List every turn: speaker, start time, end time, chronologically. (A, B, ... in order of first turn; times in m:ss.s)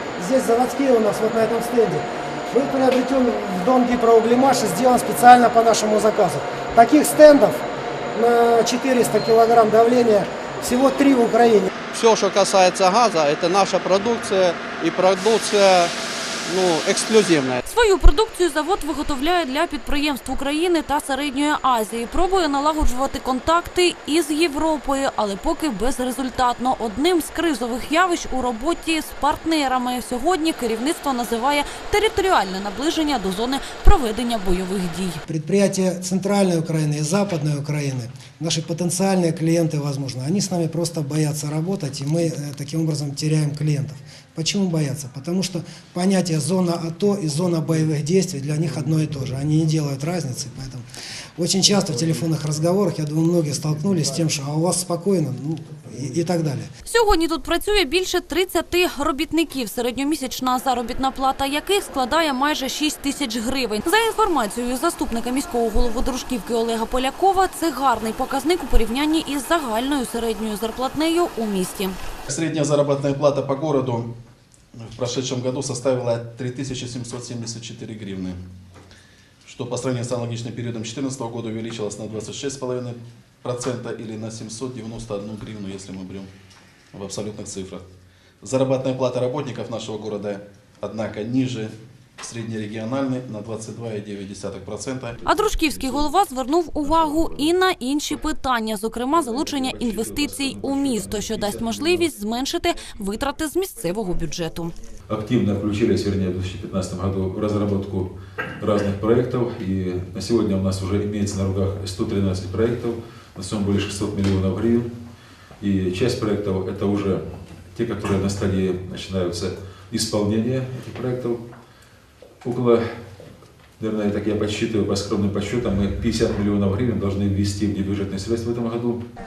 0:00.2-0:07.6 A
0:08.1-0:11.7 A
0:11.9-0:15.9 B
0:16.5-0:17.6 B
0:17.6-0:35.2 C
0:35.3-0:50.8 A
0:51.4-0:56.7 A
0:56.8-1:12.0 C
1:12.3-1:14.1 D
1:14.7-1:18.4 D
1:19.4-1:26.3 D
1:26.9-1:27.9 D
1:28.4-1:35.2 D
1:35.2-1:36.1 E
1:35.2-1:44.7 C
1:36.8-1:37.5 E
1:39.1-1:42.1 E
1:45.1-1:54.9 E
1:55.6-2:01.4 E
2:02.4-2:02.8 E
2:03.8-2:09.0 E